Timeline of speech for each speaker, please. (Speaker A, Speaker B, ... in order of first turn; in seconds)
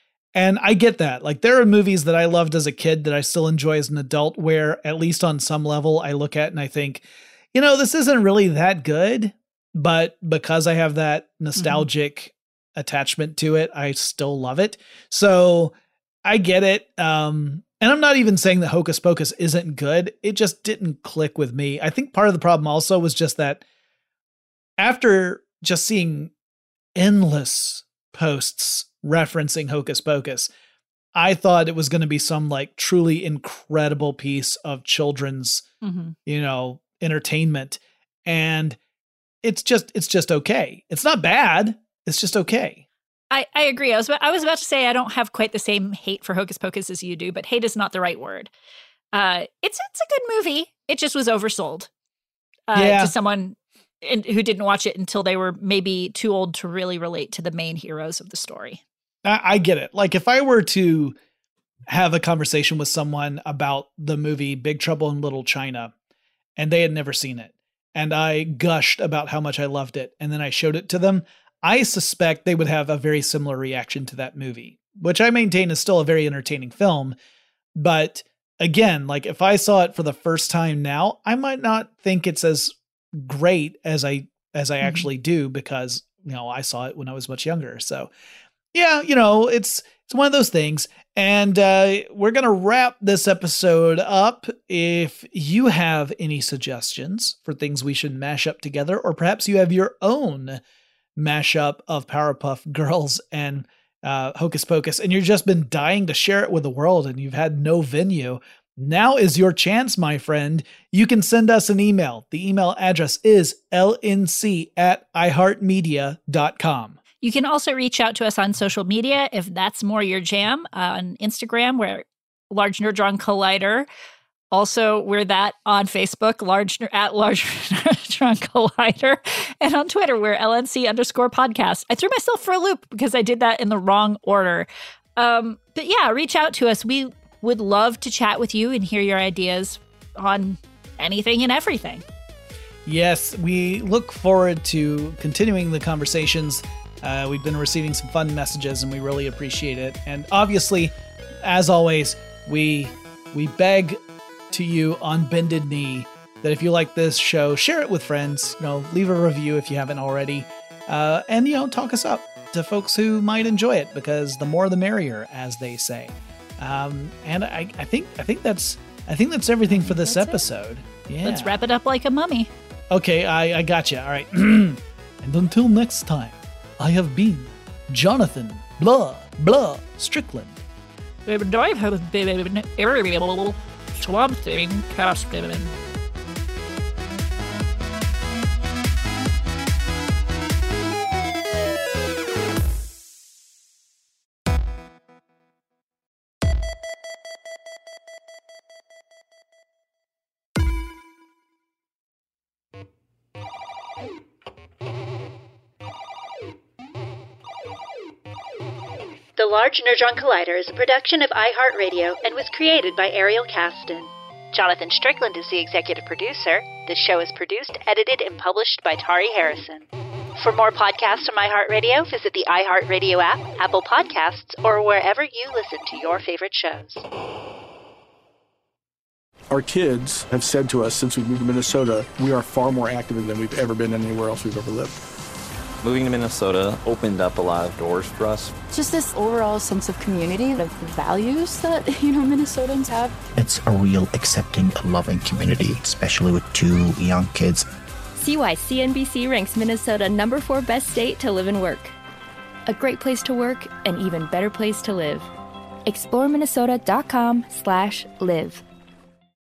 Speaker A: 0.3-15.7, 16.2-23.6, 24.8-26.3, 26.9-30.5, 31.1-35.6, 36.2-38.8, 39.4-42.8, 52.7-53.1, 59.2-61.1, 61.9-65.9, 66.6-77.1, 77.8-88.1, 88.7-100.6, 101.2-117.0, 142.8-154.0, 154.5-171.5, 172.9-180.6
Speaker B: 11.6-11.9, 35.8-36.1, 43.3-48.5, 49.1-51.9, 52.7-58.8, 84.8-85.1, 117.2-123.9, 124.5-142.0, 169.7-170.4, 171.2-172.5, 181.2-185.7
Speaker C: 209.4-227.0
Speaker D: 229.5-235.0
Speaker E: 235.8-238.5
Speaker F: 238.7-243.2
Speaker G: 243.3-247.7
Speaker H: 248.2-251.9, 252.7-255.3, 255.8-258.6